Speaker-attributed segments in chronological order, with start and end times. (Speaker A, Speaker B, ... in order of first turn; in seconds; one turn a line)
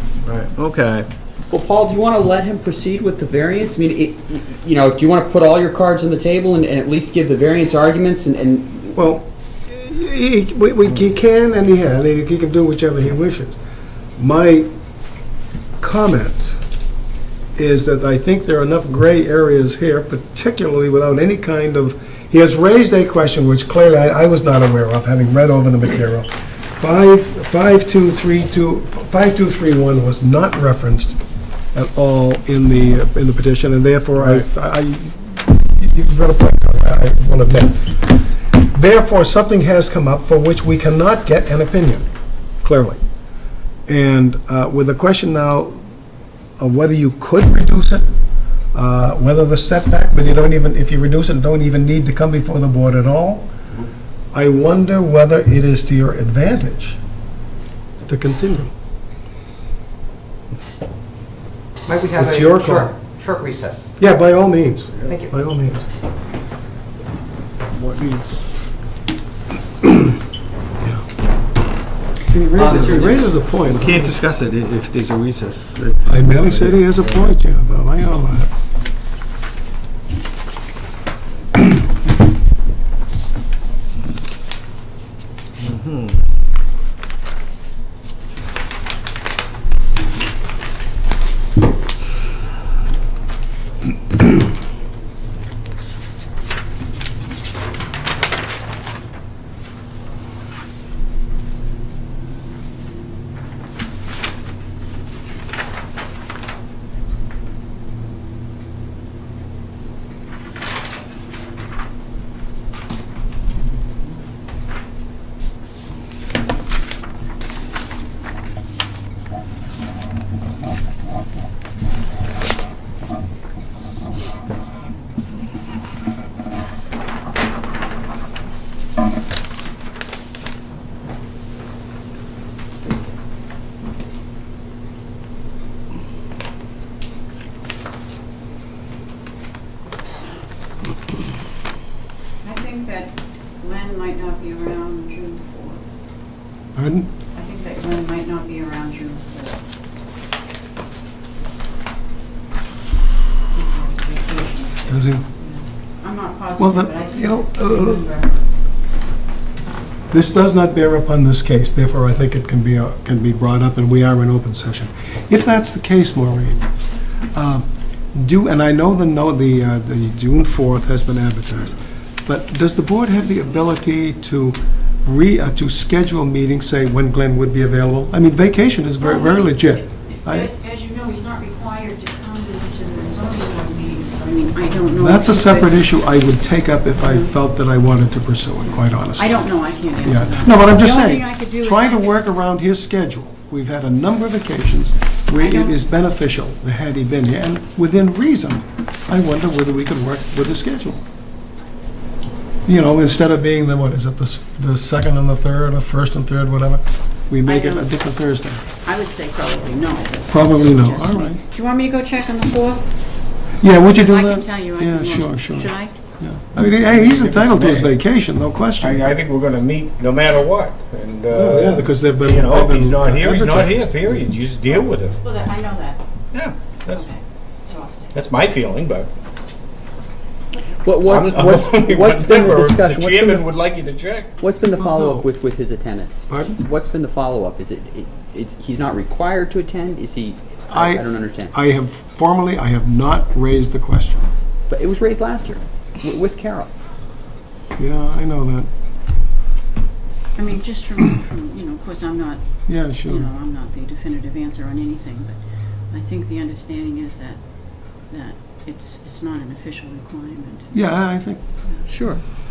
Speaker A: 0.3-1.1
Speaker B: 1.5-9.0
Speaker C: 8.9-13.6
Speaker C: 14.2-14.7
Speaker C: 15.8-16.6
Speaker C: 17.6-31.2
Speaker C: 31.7-38.1
Speaker A: 34.2-34.4
Speaker C: 38.7-42.1
Speaker C: 42.6-43.0
Speaker C: 43.9-45.9
Speaker C: 46.6-48.1
Speaker C: 48.7-53.5
Speaker C: 54.3-57.0
Speaker C: 58.0-58.7
Speaker D: 61.9-63.8
Speaker C: 62.1-63.0
Speaker B: 63.3-63.6
Speaker C: 64.0-65.9
Speaker A: 67.7-68.6
Speaker C: 72.3-74.1
Speaker B: 72.7-73.3
Speaker A: 73.6-77.3
Speaker C: 76.1-78.5
Speaker E: 142.4-145.9
Speaker C: 146.8-147.1
Speaker E: 147.3-149.6
Speaker E: 153.5-158.3
Speaker C: 154.9-155.3
Speaker C: 156.6-158.1
Speaker C: 160.1-166.6
Speaker C: 167.3-180.5
Speaker E: 179.0-185.8
Speaker C: 185.0-189.4
Speaker E: 187.0-187.3
Speaker E: 188.7-192.1
Speaker C: 190.0-201.0
Speaker E: 195.3-195.8
Speaker C: 202.7-208.6
Speaker E: 207.4-207.9
Speaker E: 208.8-212.9
Speaker C: 210.3-211.4
Speaker C: 213.6-219.2
Speaker E: 213.6-215.9
Speaker A: 216.6-218.0
Speaker A: 218.8-225.2
Speaker C: 221.3-224.2
Speaker E: 224.8-226.0
Speaker A: 226.3-227.1
Speaker E: 226.9-228.2
Speaker A: 228.1-229.1
Speaker B: 230.8-233.6
Speaker A: 230.9-234.4
Speaker B: 234.4-241.6
Speaker C: 234.8-235.3
Speaker A: 236.3-236.6
Speaker C: 240.7-244.3
Speaker B: 244.7-246.7
Speaker C: 247.8-248.7
Speaker E: 250.4-252.4
Speaker C: 252.7-253.3
Speaker E: 253.0-260.8
Speaker C: 260.7-261.4
Speaker B: 261.9-262.2